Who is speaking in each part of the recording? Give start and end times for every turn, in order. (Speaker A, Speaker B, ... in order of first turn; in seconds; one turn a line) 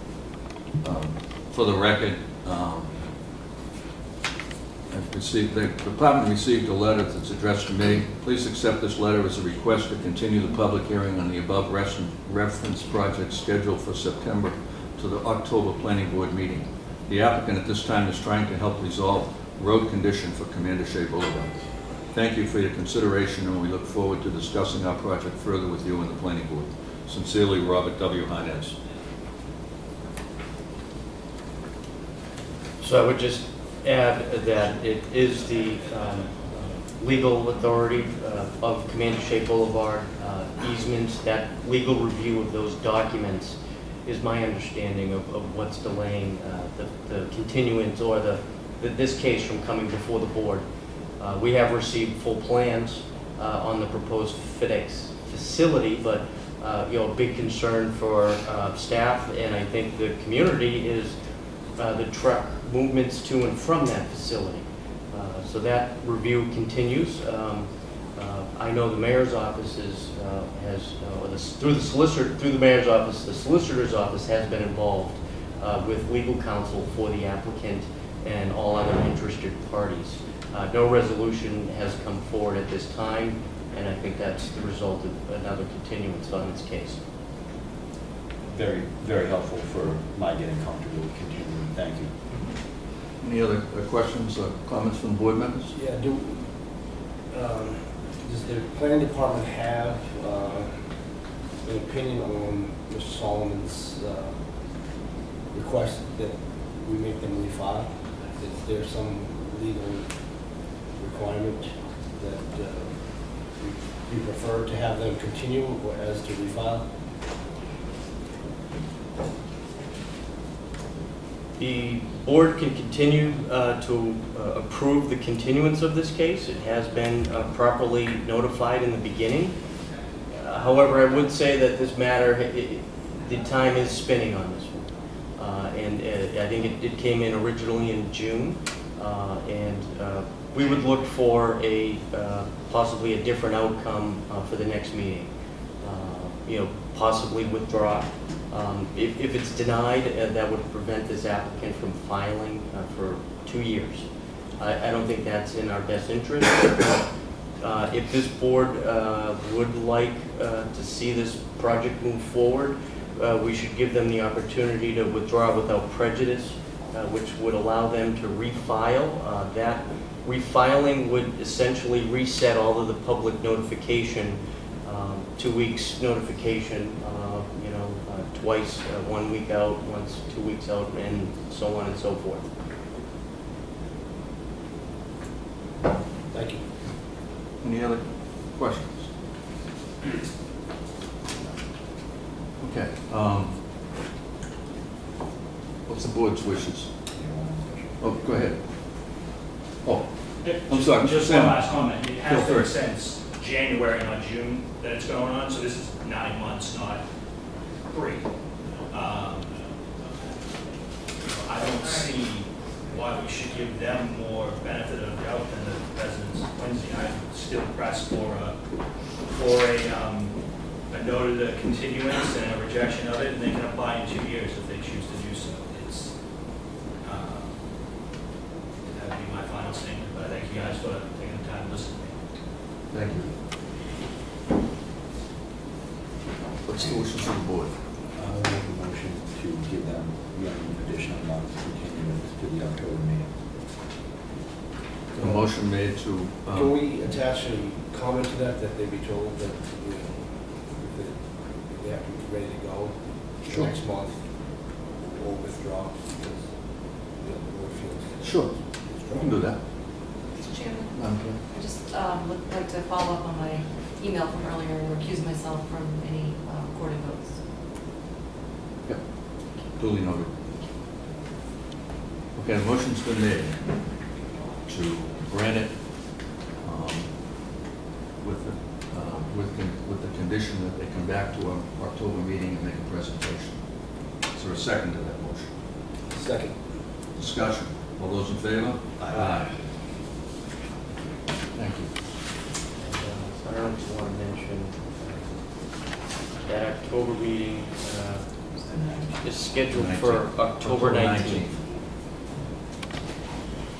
Speaker A: 0.8-2.9
Speaker A: 4.9-21.5
Speaker A: 22.1-28.7
Speaker B: 32.8-50.6
Speaker B: 51.2-61.1
Speaker B: 61.8-87.0
Speaker C: 88.5-92.1
Speaker A: 93.2-95.7
Speaker D: 95.7-105.0
Speaker D: 105.5-116.9
Speaker B: 121.6-129.5
Speaker B: 130.3-154.0
Speaker B: 154.6-157.1
Speaker B: 157.6-182.5
Speaker D: 186.3-186.6
Speaker A: 187.6-189.1
Speaker A: 192.6-193.6
Speaker A: 195.9-196.9
Speaker C: 197.1-198.0
Speaker A: 198.0-198.6
Speaker A: 199.8-202.7
Speaker E: 200.4-207.0
Speaker E: 207.9-208.3
Speaker E: 208.9-209.5
Speaker E: 211.4-218.6
Speaker E: 219.2-220.4
Speaker E: 220.9-226.1
Speaker E: 227.0-227.6
Speaker E: 228.8-232.1
Speaker A: 232.9-233.3
Speaker A: 236.6-237.7
Speaker C: 238.1-243.3
Speaker A: 245.2-246.8
Speaker D: 245.2-245.4
Speaker D: 246.5-259.4
Speaker A: 253.5-253.7
Speaker A: 258.2-259.6
Speaker F: 260.3-267.3
Speaker A: 260.9-261.4
Speaker A: 268.9-270.3
Speaker A: 272.3-273.6
Speaker A: 274.7-276.0
Speaker A: 276.6-277.1
Speaker A: 278.2-283.6
Speaker A: 284.3-285.5
Speaker D: 286.1-286.6
Speaker A: 287.1-289.4
Speaker D: 289.1-289.4
Speaker A: 291.5-291.9
Speaker B: 292.8-295.9
Speaker B: 296.4-298.5
Speaker B: 299.2-301.5
Speaker A: 299.7-301.6